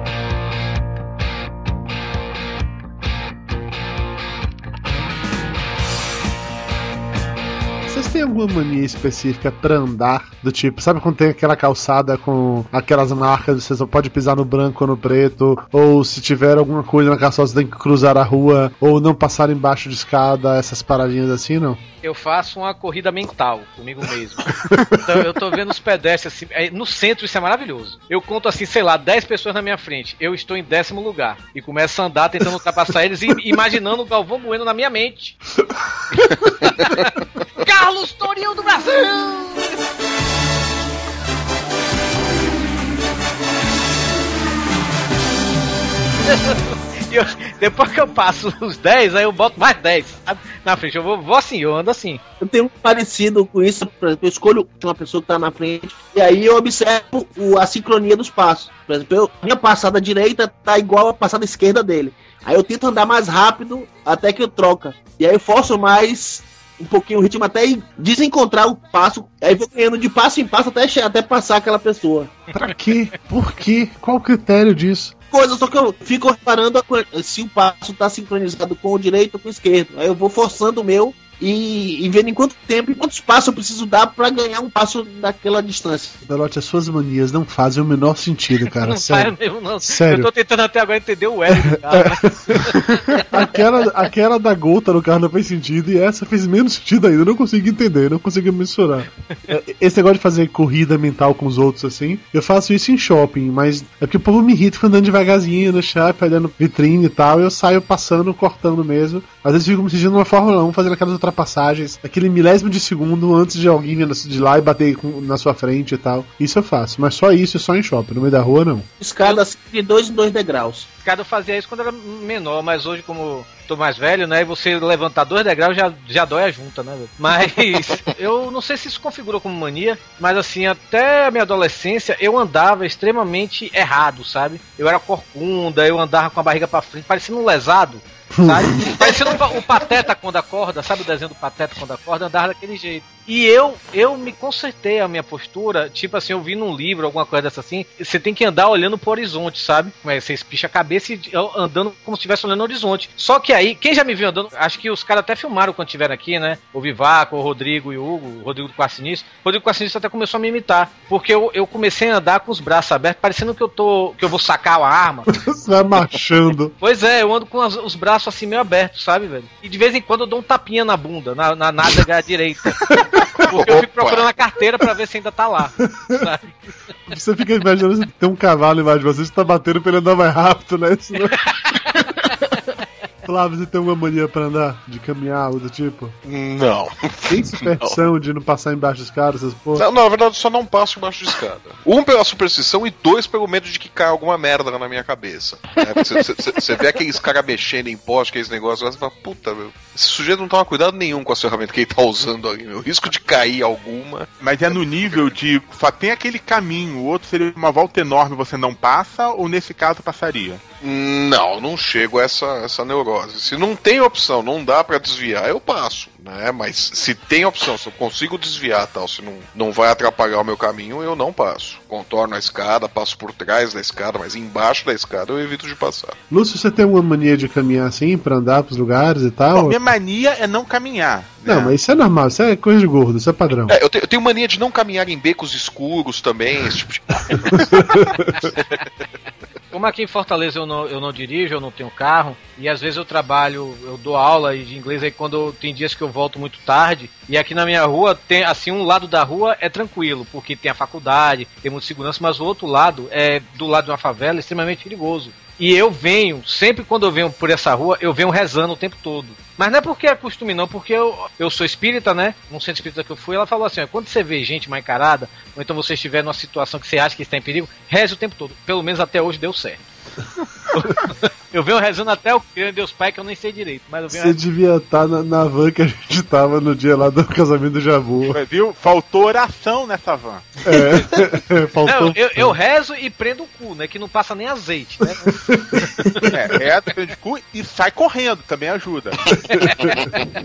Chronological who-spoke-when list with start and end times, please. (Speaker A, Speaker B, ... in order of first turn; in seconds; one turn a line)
Speaker A: 7.9-21.8
Speaker B: 22.0-35.4
Speaker A: 24.6-24.9
Speaker B: 37.6-39.7
Speaker B: 46.3-52.2
Speaker C: 52.4-72.3
Speaker A: 72.5-75.1
Speaker C: 75.3-86.2
Speaker A: 86.3-90.3
Speaker B: 88.8-93.2
Speaker A: 91.5-92.7
Speaker A: 93.3-118.9
Speaker C: 119.0-120.9
Speaker B: 121.0-165.3
Speaker A: 138.3-138.9
Speaker C: 139.0-139.3
Speaker A: 165.3-166.8
Speaker B: 166.8-176.5
Speaker A: 173.0-173.5
Speaker D: 173.5-174.3
Speaker A: 175.8-176.3
Speaker A: 177.1-181.4
Speaker A: 183.2-186.2
Speaker D: 186.2-188.0
Speaker A: 187.3-189.8
Speaker D: 189.8-205.3
Speaker E: 204.4-210.6
Speaker D: 210.8-226.2
Speaker A: 226.3-229.8
Speaker E: 229.5-231.7
Speaker A: 231.5-233.8
Speaker D: 233.7-238.8
Speaker A: 237.5-238.3
Speaker B: 239.7-269.8
Speaker B: 270.7-274.4
Speaker A: 274.1-278.4
Speaker E: 278.3-280.5
Speaker A: 280.7-282.6
Speaker B: 281.9-285.4
Speaker A: 285.4-286.2
Speaker E: 286.3-289.2
Speaker A: 289.4-290.0